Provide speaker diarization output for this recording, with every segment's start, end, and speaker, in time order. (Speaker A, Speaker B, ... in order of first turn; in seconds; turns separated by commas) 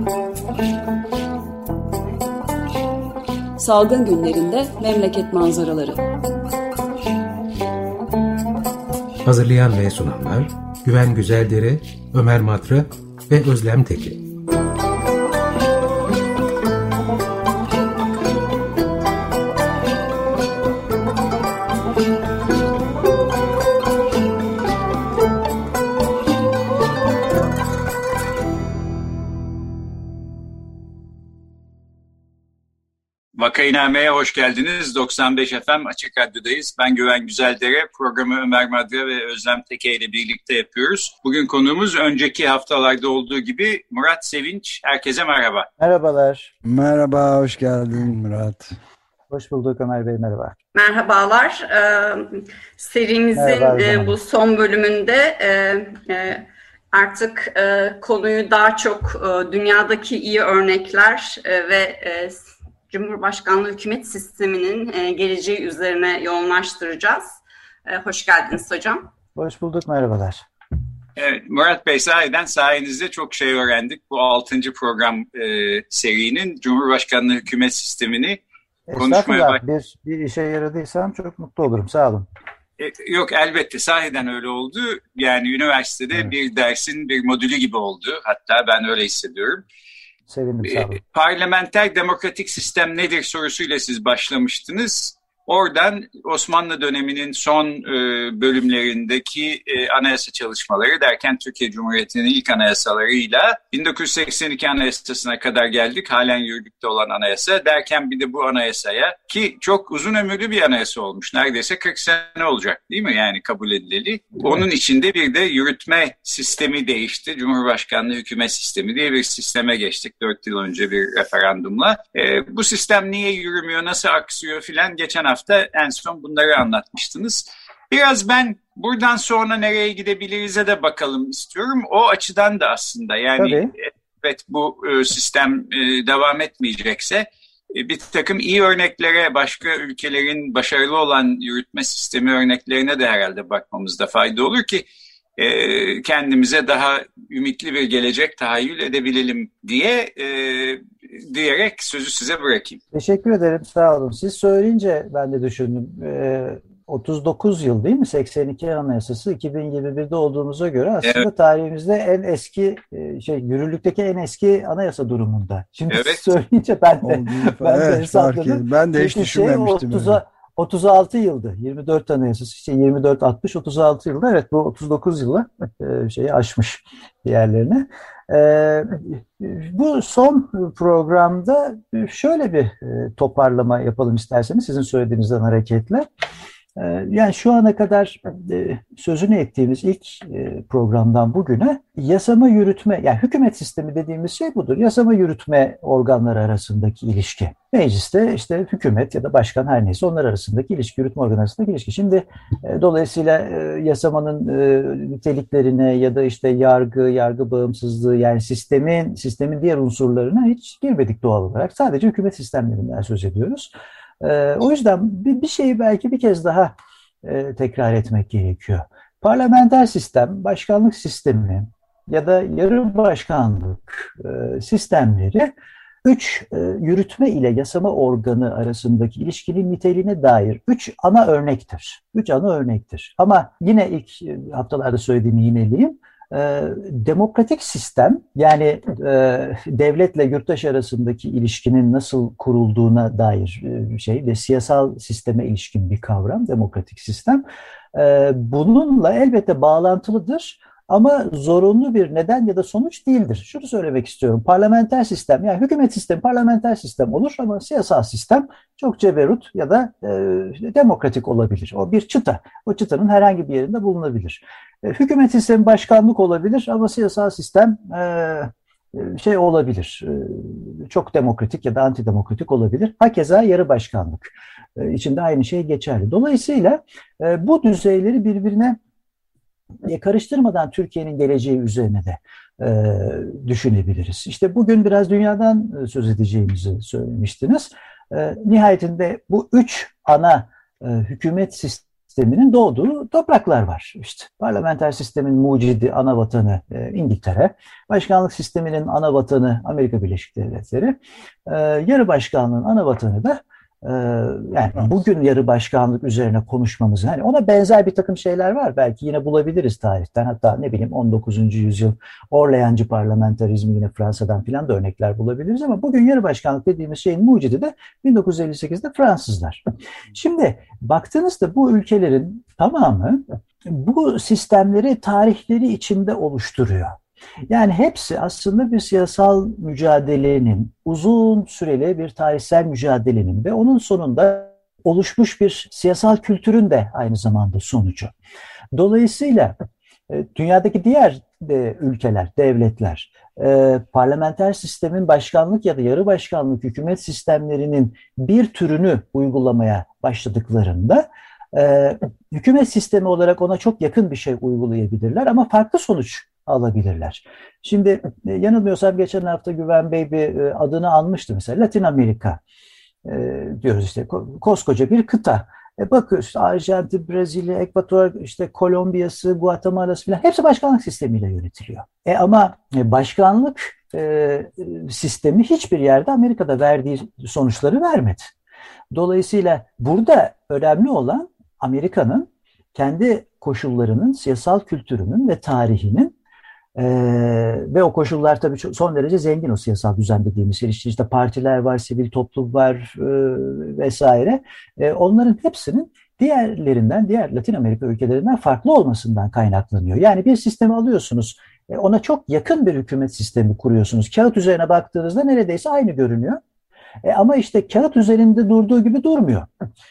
Speaker A: 3.6-6.0, Speaker B: 9.2-14.2, Speaker C: 33.3-45.7, Speaker D: 45.8-46.5, Speaker E: 46.6-48.8, Speaker D: 49.3-50.5, Speaker F: 50.7-69.1, Speaker D: 53.3-54.1, Speaker D: 69.3-70.4, Speaker C: 71.2-78.4, Speaker D: 78.9-82.3, Speaker C: 79.0-79.6, Speaker C: 82.8-89.6, Speaker D: 90.3-91.0, Speaker C: 90.7-152.8, Speaker D: 133.4-133.7, Speaker D: 152.9-186.1, Speaker C: 165.9-166.2, Speaker E: 167.0-170.2, Speaker D: 186.8-225.5, Speaker D: 226.0-278.8, Speaker D: 279.8-319.6, Speaker D: 320.1-327.0, Speaker D: 327.5-338.1, Speaker D: 338.7-339.5, Speaker D: 340.1-362.4, Speaker D: 363.0-378.3, Speaker D: 378.9-386.1, Speaker D: 386.8-406.4, Speaker D: 407.0-409.5